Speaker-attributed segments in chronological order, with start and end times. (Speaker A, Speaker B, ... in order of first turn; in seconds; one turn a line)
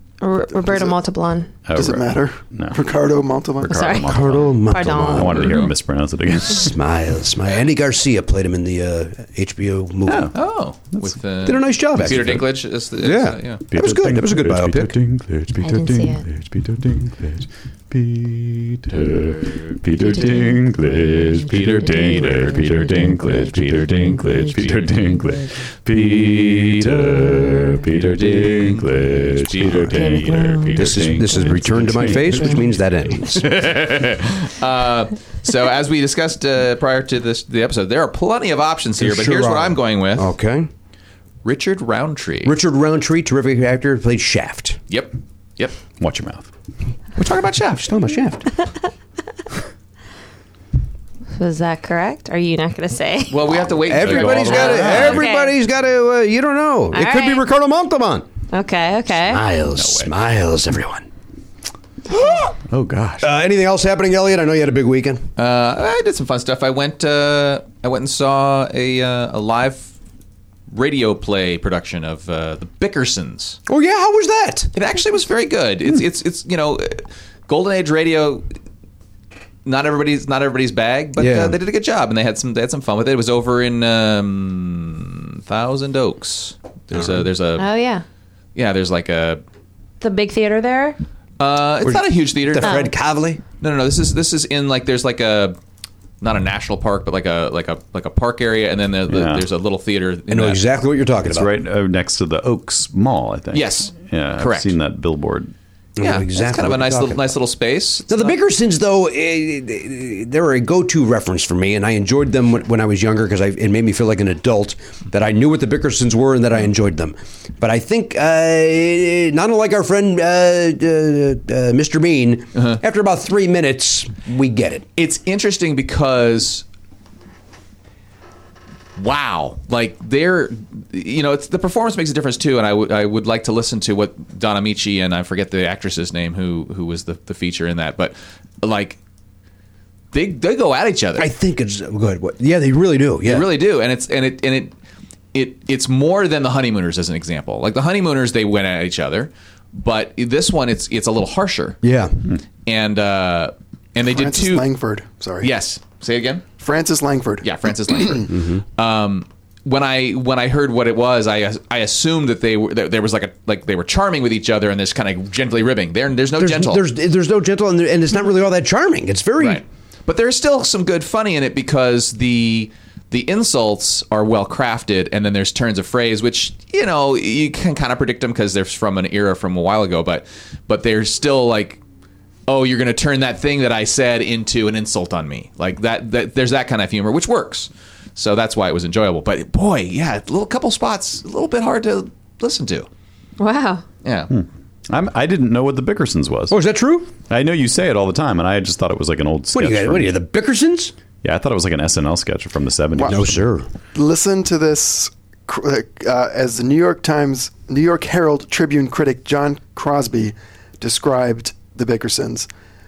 Speaker A: 0.2-1.6
Speaker B: 0.6-0.9
Speaker C: 1.6-2.8
Speaker B: 1.7-3.7
Speaker C: 3.6-6.8
Speaker A: 3.6-5.7
Speaker D: 4.0-5.6
Speaker D: 6.5-10.3
Speaker C: 10.1-10.3
Speaker E: 10.3-13.6
Speaker D: 11.4-12.4
Speaker C: 12.0-12.5
Speaker D: 13.0-14.9
Speaker C: 13.7-32.7
Speaker A: 15.6-16.2
Speaker A: 20.0-20.6
Speaker A: 21.2-24.6
Speaker E: 23.9-24.9
Speaker E: 28.3-30.2
Speaker A: 29.9-31.5
Speaker D: 30.7-33.5
Speaker E: 33.3-40.3
Speaker D: 39.0-40.7
Speaker E: 41.4-42.5
Speaker D: 42.4-44.8
Speaker E: 44.9-45.7
Speaker C: 46.0-46.5
Speaker E: 47.2-47.9
Speaker D: 47.8-48.5
Speaker A: 51.4-53.5
Speaker E: 53.3-55.2
Speaker D: 53.8-58.2
Speaker C: 54.0-55.2
Speaker A: 55.0-55.5
Speaker A: 56.9-57.4
Speaker A: 58.5-59.4
Speaker D: 59.2-61.1
Speaker E: 59.7-60.1
Speaker C: 62.7-63.3
Speaker D: 63.2-65.3
Speaker E: 65.4-69.9
Speaker E: 70.7-73.6
Speaker D: 73.7-74.7
Speaker E: 74.7-78.4
Speaker E: 79.6-87.7
Speaker D: 81.2-81.5
Speaker A: 87.6-88.0
Speaker E: 88.5-89.4
Speaker A: 90.0-91.0
Speaker E: 91.4-92.9
Speaker D: 91.8-93.4
Speaker A: 92.6-92.9
Speaker E: 93.6-95.6
Speaker E: 96.2-100.6
Speaker C: 99.1-99.5
Speaker D: 100.3-101.5
Speaker C: 101.2-105.5
Speaker E: 103.5-104.7
Speaker D: 106.0-107.3
Speaker E: 106.0-108.3
Speaker D: 108.1-124.8
Speaker E: 125.0-126.6
Speaker E: 129.0-139.0
Speaker E: 140.1-141.3
Speaker D: 141.2-143.5
Speaker E: 143.2-144.7
Speaker E: 145.3-151.8
Speaker D: 151.8-152.2
Speaker E: 152.7-154.7
Speaker B: 154.0-155.5
Speaker E: 155.4-156.4
Speaker B: 156.6-157.5
Speaker E: 157.4-166.8
Speaker D: 158.3-158.6
Speaker D: 166.4-169.6
Speaker E: 169.4-181.8
Speaker E: 182.5-192.9
Speaker A: 193.4-193.8
Speaker E: 194.0-194.3
Speaker C: 194.3-196.6
Speaker D: 196.5-197.1
Speaker C: 197.3-200.1
Speaker D: 199.5-200.9
Speaker C: 201.2-203.4
Speaker D: 203.0-203.7
Speaker B: 203.9-212.5